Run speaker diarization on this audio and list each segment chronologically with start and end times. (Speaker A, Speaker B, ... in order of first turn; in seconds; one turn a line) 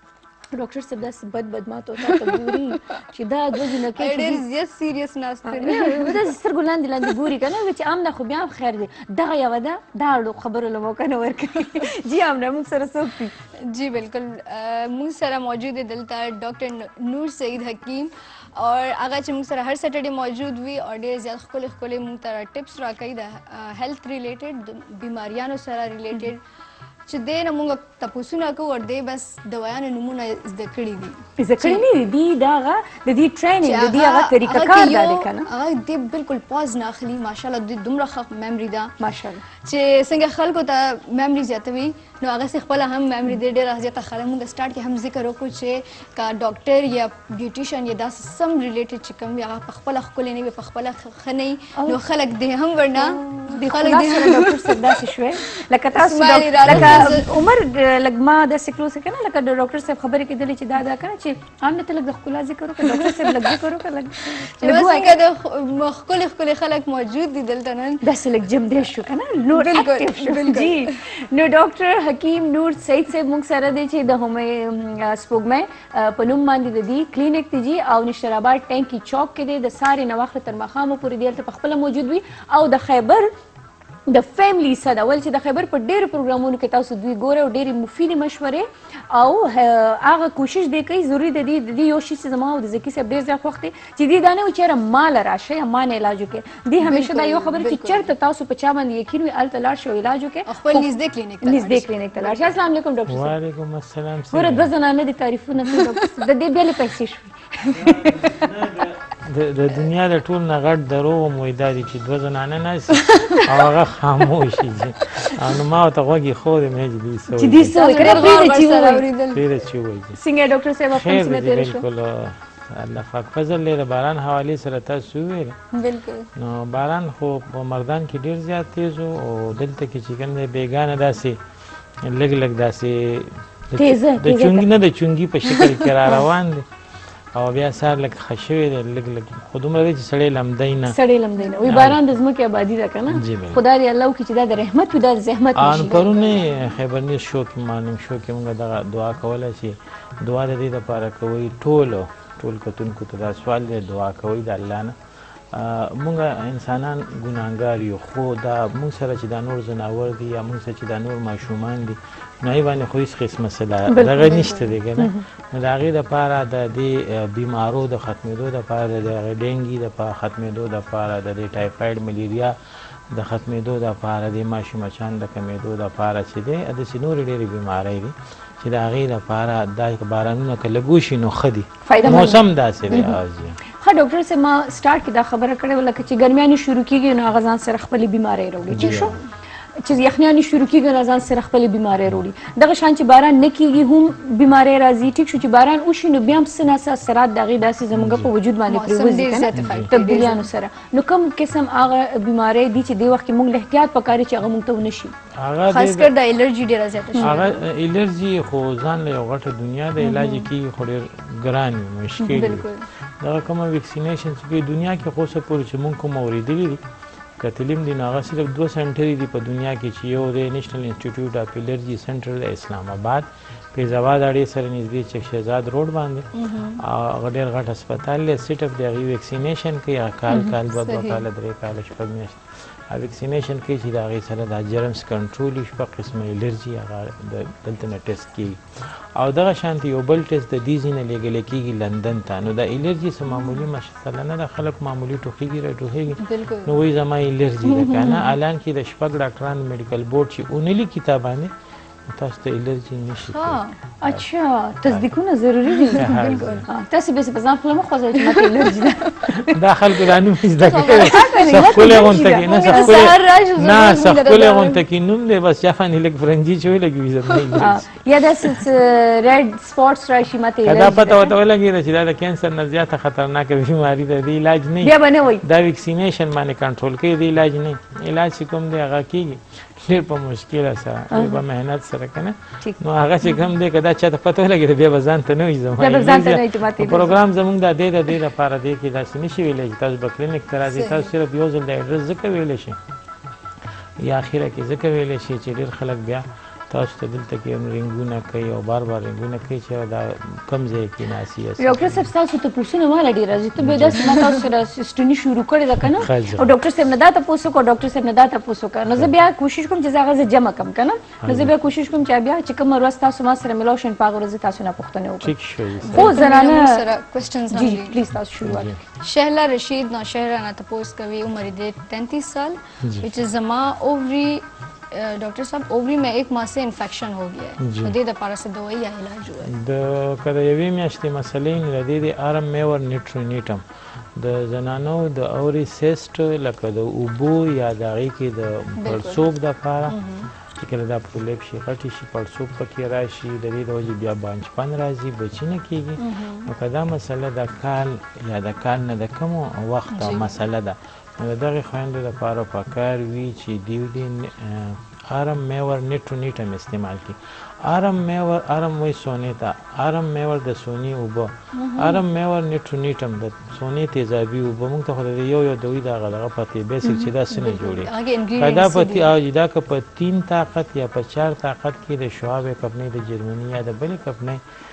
Speaker A: 0.5-4.4
Speaker B: 4.0-6.3
Speaker A: 5.5-13.3
Speaker B: 13.6-26.4
Speaker B: 27.1-31.9
Speaker A: 31.4-35.5
Speaker B: 33.6-38.9
Speaker A: 39.0-39.4
Speaker B: 39.6-55.0
Speaker A: 53.0-65.2
Speaker B: 55.9-57.3
Speaker C: 56.7-57.2
Speaker B: 62.9-63.5
Speaker B: 64.4-68.0
Speaker A: 68.0-83.3
Speaker B: 69.5-71.0
Speaker A: 84.1-100.9
Speaker B: 96.8-98.1
Speaker B: 100.5-102.6
Speaker A: 101.4-103.3
Speaker C: 103.1-104.7
Speaker A: 104.3-108.1
Speaker B: 105.8-106.1
Speaker C: 107.7-118.3
Speaker B: 113.0-113.4
Speaker A: 117.3-119.1
Speaker B: 117.8-119.4
Speaker C: 119.3-120.2
Speaker A: 120.2-121.8
Speaker C: 120.9-125.6
Speaker B: 125.7-126.3
Speaker C: 126.4-131.4
Speaker C: 132.0-136.7
Speaker A: 133.8-134.7
Speaker C: 137.3-141.0
Speaker A: 140.9-146.0
Speaker C: 141.6-142.0
Speaker C: 143.1-143.6
Speaker C: 145.6-154.9
Speaker B: 145.9-146.6
Speaker C: 155.5-172.6
Speaker A: 163.9-165.2
Speaker C: 173.1-183.6
Speaker A: 181.8-183.2
Speaker A: 183.8-189.2
Speaker C: 188.7-189.2
Speaker B: 188.8-189.1
Speaker A: 189.8-205.1
Speaker C: 197.9-198.3
Speaker B: 198.7-200.5
Speaker C: 199.6-199.9
Speaker C: 205.3-206.1
Speaker B: 205.7-207.6
Speaker C: 207.2-212.7
Speaker A: 210.1-210.4
Speaker A: 212.2-212.5
Speaker B: 212.3-212.9
Speaker C: 213.2-216.8
Speaker C: 217.4-226.3
Speaker B: 226.3-226.8
Speaker C: 226.8-251.5
Speaker B: 230.8-231.2
Speaker B: 246.2-246.8
Speaker B: 247.7-248.2
Speaker A: 248.0-248.3
Speaker C: 252.1-254.2
Speaker B: 253.3-253.8
Speaker A: 254.0-259.6
Speaker B: 255.9-256.7
Speaker C: 255.9-256.7
Speaker B: 258.4-259.1
Speaker C: 259.3-268.6
Speaker B: 260.6-264.8
Speaker A: 260.9-263.0
Speaker B: 267.3-267.6
Speaker A: 267.6-271.3
Speaker C: 270.6-292.8
Speaker A: 274.8-275.4
Speaker A: 281.1-281.4
Speaker A: 285.8-287.2
Speaker B: 290.7-291.1
Speaker C: 294.0-301.9
Speaker A: 301.6-315.3
Speaker C: 303.6-304.3
Speaker C: 305.8-306.6
Speaker C: 311.2-311.5
Speaker C: 315.2-316.2
Speaker B: 315.8-318.0
Speaker A: 315.9-316.9
Speaker A: 317.5-318.8
Speaker C: 318.4-318.8
Speaker B: 319.0-329.5
Speaker C: 327.6-328.0
Speaker C: 329.4-333.6
Speaker C: 334.2-374.4
Speaker B: 338.8-339.2
Speaker B: 339.9-340.3
Speaker B: 346.0-346.5
Speaker B: 349.9-350.3
Speaker B: 361.5-362.0
Speaker A: 366.8-367.1
Speaker B: 367.3-369.1